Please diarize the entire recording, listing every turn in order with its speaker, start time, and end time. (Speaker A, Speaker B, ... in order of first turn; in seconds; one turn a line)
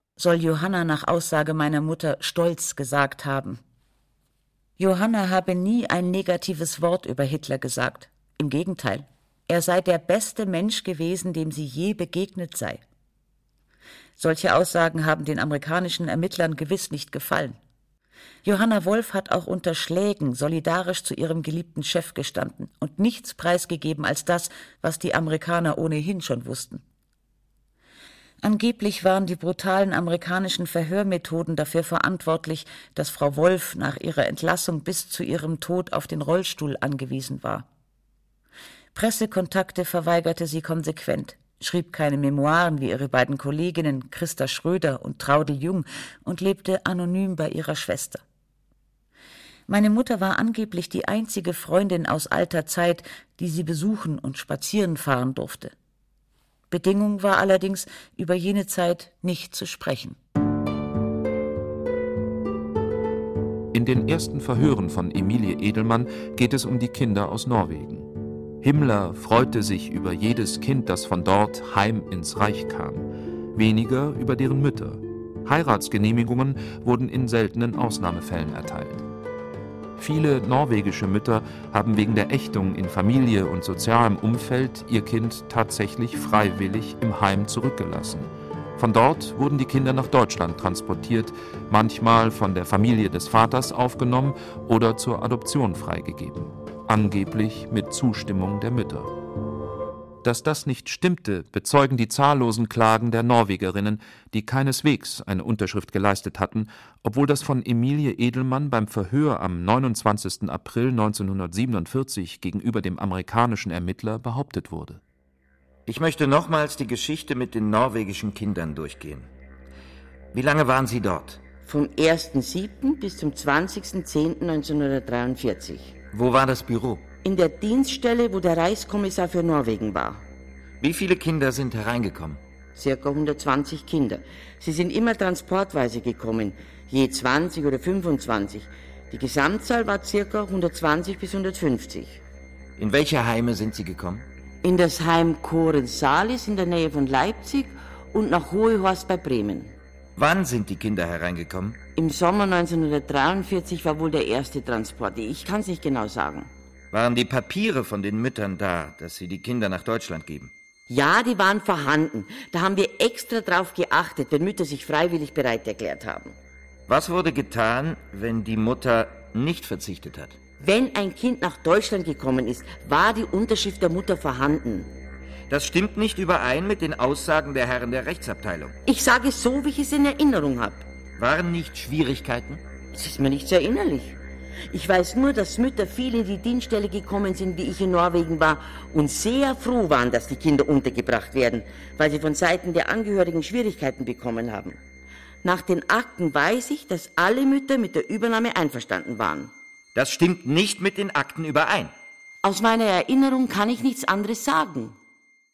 Speaker A: 0.2-3.6
Speaker A: 4.8-12.8
Speaker A: 14.2-17.6
Speaker A: 18.4-26.8
Speaker A: 28.4-37.7
Speaker A: 38.9-48.2
Speaker A: 49.7-55.7
Speaker A: 56.7-60.2
Speaker B: 63.7-68.1
Speaker B: 68.6-79.0
Speaker B: 80.0-99.1
Speaker B: 100.2-115.0
Speaker C: 115.9-119.3
Speaker C: 120.3-121.4
Speaker D: 121.7-126.0
Speaker C: 126.1-127.0
Speaker D: 127.2-130.2
Speaker C: 130.8-132.4
Speaker D: 132.8-142.2
Speaker C: 142.8-144.2
Speaker D: 144.6-149.7
Speaker C: 150.2-151.8
Speaker D: 151.9-156.5
Speaker C: 156.9-160.5
Speaker D: 160.9-166.3
Speaker C: 166.9-170.4
Speaker D: 170.6-174.9
Speaker C: 175.5-178.7
Speaker D: 178.9-180.8
Speaker C: 181.2-182.6
Speaker D: 182.9-184.2
Speaker D: 184.7-194.8
Speaker D: 195.4-199.5
Speaker C: 199.9-201.9
Speaker D: 202.4-204.9